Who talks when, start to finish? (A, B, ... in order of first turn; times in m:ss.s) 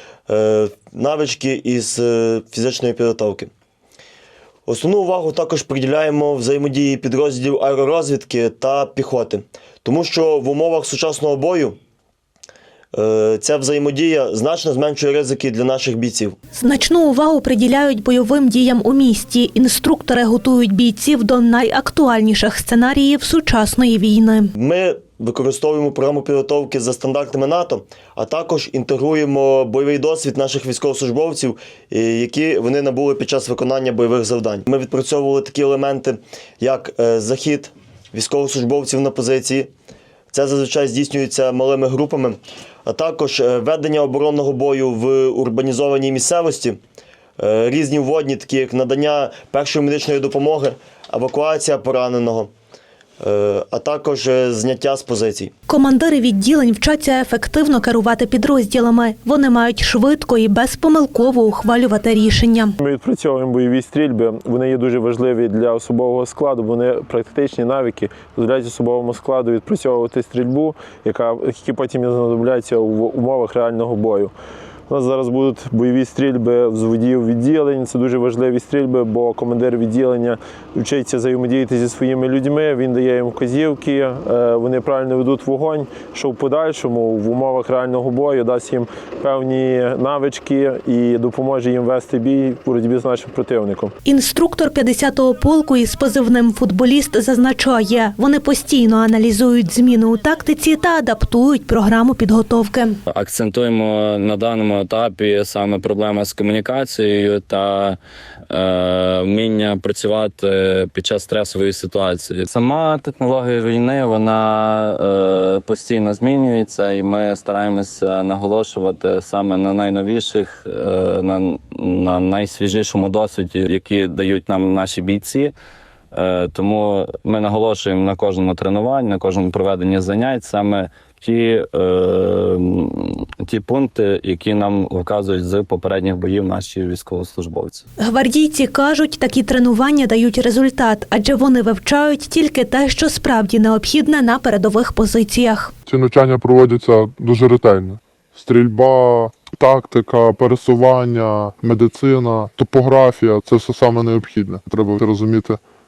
0:00.3-0:03.5 A
0:04.7-0:11.8 A
0:12.9-0:16.4 A
0:16.5-0:24.5 B
0:24.6-0:39.7 A
0:40.3-0:46.8 A
0:47.4-0:52.5 A
0:53.2-0:55.5 A
0:55.7-1:02.8 B
1:02.8-1:14.3 C
1:14.9-1:33.9 C
1:34.0-1:43.0 B
1:43.1-1:48.0 D
1:48.5-2:05.5 D
2:06.1-2:17.8 D
2:18.0-2:25.7 B
2:25.8-2:35.6 E